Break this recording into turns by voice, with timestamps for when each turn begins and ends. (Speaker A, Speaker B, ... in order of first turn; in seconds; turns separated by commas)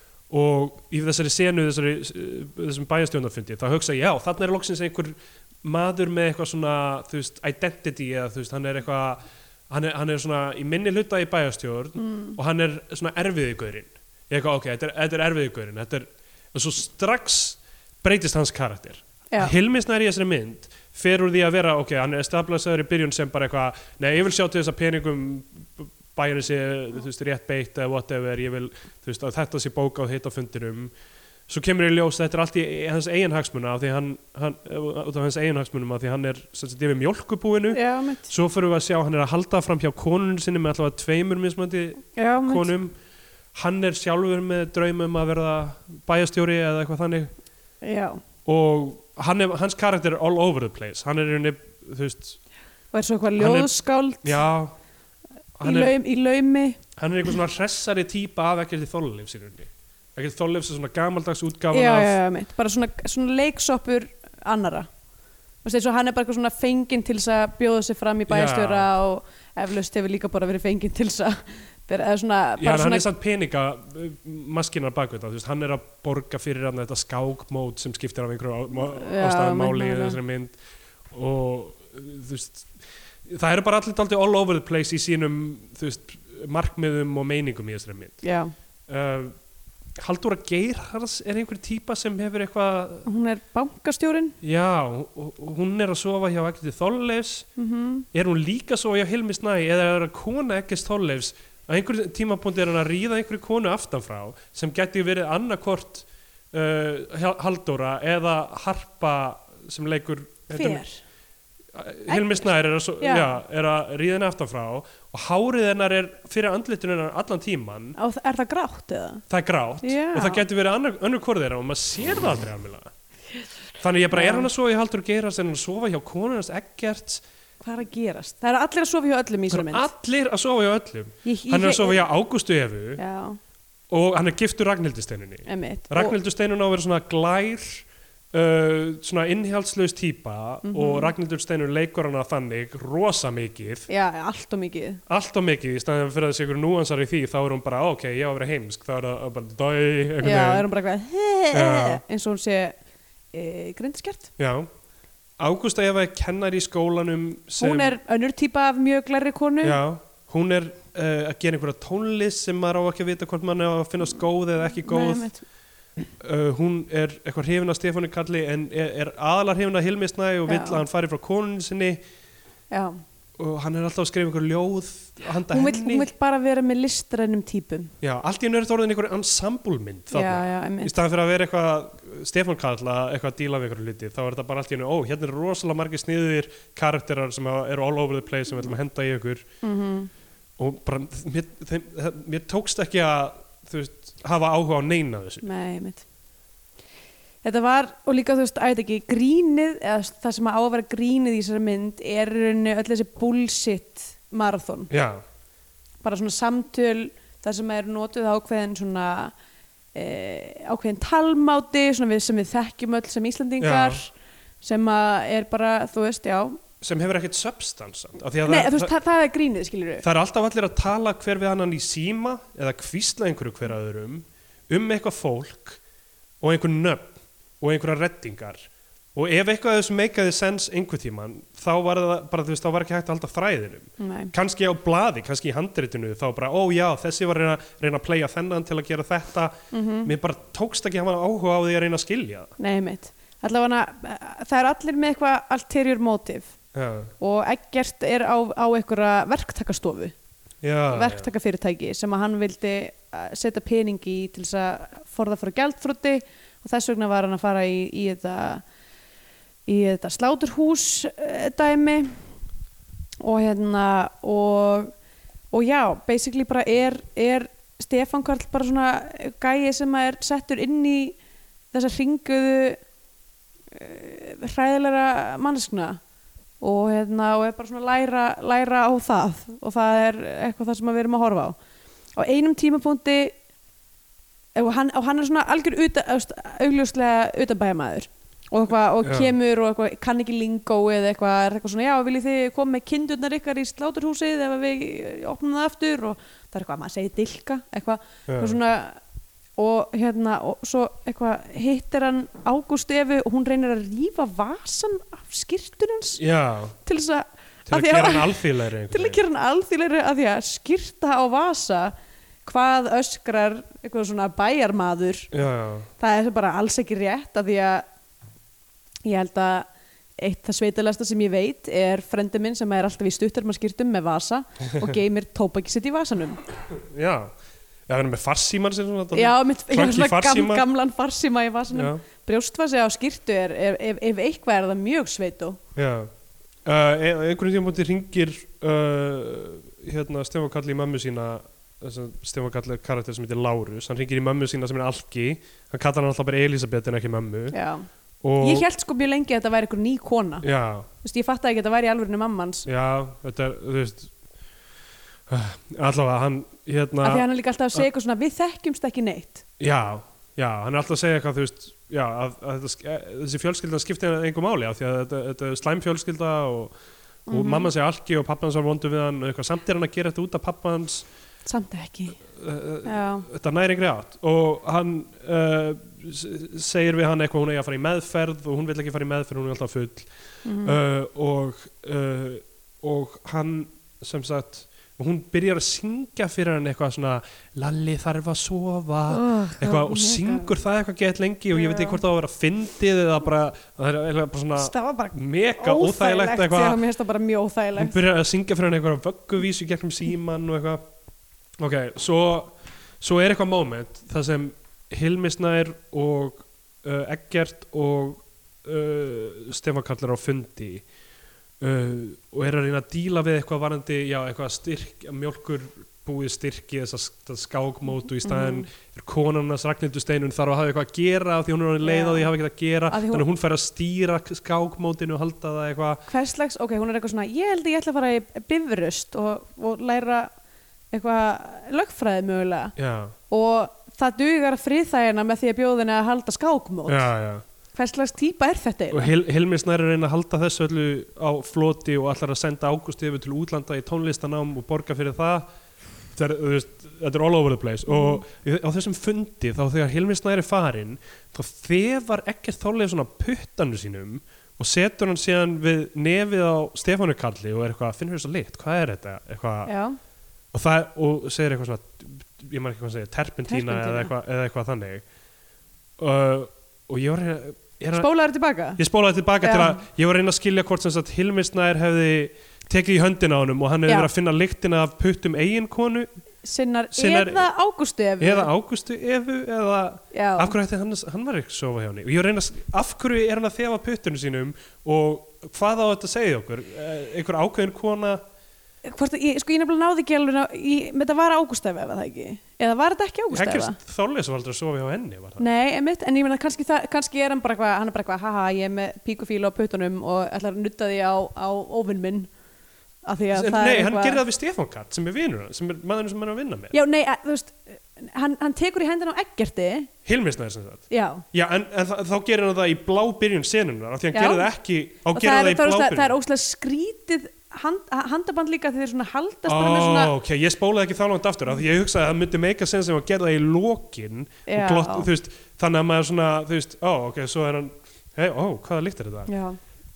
Speaker A: 0.3-30.9, Speaker B: 12.0-12.4, Speaker A: 31.5-42.9, Speaker B: 37.7-38.3, Speaker B: 42.1-42.7, Speaker A: 43.5-47.3, Speaker B: 47.8-48.2, Speaker A: 48.4-52.4, Speaker B: 52.9-54.4, Speaker A: 53.4-53.7, Speaker A: 54.2-54.8, Speaker A: 55.6-55.9, Speaker B: 55.6-56.8, Speaker A: 57.0-62.2, Speaker B: 61.7-64.9, Speaker B: 65.6-73.0, Speaker A: 68.3-68.9, Speaker A: 72.6-80.5, Speaker B: 78.8-80.2, Speaker A: 81.1-82.7, Speaker A: 83.2-88.2, Speaker B: 88.2-88.5, Speaker A: 88.9-89.3, Speaker A: 90.0-93.1, Speaker B: 93.0-94.3, Speaker A: 94.4-97.5, Speaker B: 97.6-98.0, Speaker A: 98.1-110.8, Speaker B: 110.5-111.0, Speaker A: 111.7-118.0, Speaker B: 112.1-112.5, Speaker B: 113.0-113.4, Speaker B: 118.0-119.2, Speaker A: 119.3-122.9, Speaker B: 119.8-120.4, Speaker A: 123.8-127.2, Speaker B: 124.1-124.5, Speaker B: 127.6-129.9, Speaker A: 129.5-133.0, Speaker B: 131.2-132.0, Speaker B: 133.0-133.4, Speaker A: 133.9-143.9, Speaker B: 135.4-136.2, Speaker B: 140.6-141.1, Speaker B: 143.9-145.0, Speaker A: 145.1-150.7, Speaker B: 150.2-152.8, Speaker A: 151.5-152.0, Speaker B: 153.3-154.3, Speaker A: 154.4-154.7, Speaker A: 155.4-157.9, Speaker B: 157.6-159.8, Speaker A: 159.6-165.3, Speaker B: 164.8-165.4, Speaker A: 166.2-172.0, Speaker B: 170.5-170.8, Speaker B: 172.7-173.0, Speaker A: 173.4-176.1, Speaker B: 175.5-177.9, Speaker A: 178.0-189.4, Speaker B: 180.1-180.9, Speaker B: 189.6-190.1, Speaker A: 190.6-195.4, Speaker B: 195.4-196.0, Speaker B: 197.4-204.9, Speaker A: 204.9-205.2, Speaker B: 206.0-209.3, Speaker B: 209.9-216.6, Speaker A: 213.6-214.0, Speaker A: 216.8-218.9, Speaker B: 218.4-220.0, Speaker A: 220.0-225.8, Speaker A: 226.4-242.5, Speaker B: 234.0-234.3, Speaker B: 239.7-240.1, Speaker B: 242.6-246.5, Speaker A: 246.7-247.1, Speaker B: 247.2-250.1, Speaker A: 250.6-251.3, Speaker B: 250.9-258.6, Speaker B: 259.7-262.1, Speaker B: 263.2-264.9, Speaker B: 265.5-271.2, Speaker B: 271.7-272.8, Speaker B: 273.7-276.0, Speaker B: 276.6-281.6, Speaker B: 282.2-283.3, Speaker B: 284.5-299.0, Speaker A: 289.0-289.3, Speaker A: 298.3-298.6, Speaker B: 299.6-306.2, Speaker A: 306.2-306.7, Speaker B: 306.8-311.9, Speaker A: 307.7-309.2, Speaker B: 312.4-315.3, Speaker A: 315.3-315.9, Speaker B: 316.0-317.8, Speaker B: 319.0-326.4, Speaker A: 326.7-327.3, Speaker A: 327.9-330.6, Speaker B: 329.1-335.6, Speaker A: 331.7-332.0, Speaker A: 335.8-336.1, Speaker A: 336.6-347.6, Speaker B: 347.5-347.9, Speaker A: 348.2-348.6, Speaker B: 348.4-350.4, Speaker A: 350.4-350.9, Speaker B: 351.0-352.7, Speaker A: 352.6-354.1, Speaker A: 355.3-357.8, Speaker B: 357.0-359.4, Speaker A: 359.6-366.7, Speaker B: 367.3-367.7, Speaker A: 367.3-371.1, Speaker B: 371.4-372.2, Speaker A: 372.3-380.1, Speaker B: 372.8-373.2, Speaker B: 380.4-380.8, Speaker A: 380.6-396.8, Speaker B: 389.1-390.5, Speaker B: 391.5-392.0, Speaker B: 394.6-398.0, Speaker A: 397.8-400.8, Speaker A: 401.6-410.8, Speaker A: 411.6-426.1, Speaker B: 418.2-418.7, Speaker B: 421.8-422.3, Speaker B: 422.9-423.2, Speaker B: 426.1-430.3, Speaker B: 430.9-432.8, Speaker A: 432.8-433.1, Speaker B: 433.3-437.1, Speaker A: 436.9-437.4, Speaker B: 437.7-439.1, Speaker A: 438.9-445.5, Speaker A: 446.1-459.7, Speaker B: 447.9-448.2, Speaker B: 459.6-460.0, Speaker A: 460.5-465.0, Speaker B: 463.5-464.1, Speaker A: 466.0-468.1, Speaker B: 467.9-468.8, Speaker A: 468.8-476.1, Speaker B: 469.4-469.8, Speaker B: 476.4-478.5, Speaker A: 476.9-477.5, Speaker A: 478.2-488.2, Speaker B: 480.1-480.5, Speaker B: 488.8-493.8, Speaker A: 493.3-495.4, Speaker B: 495.4-502.3, Speaker B: 503.0-504.2, Speaker A: 503.3-506.7, Speaker B: 506.7-509.9, Speaker A: 510.0-516.1, Speaker B: 510.9-511.2, Speaker B: 514.1-514.5, Speaker B: 515.1-520.1, Speaker A: 519.5-529.3, Speaker B: 524.5-525.1, Speaker B: 529.3-529.6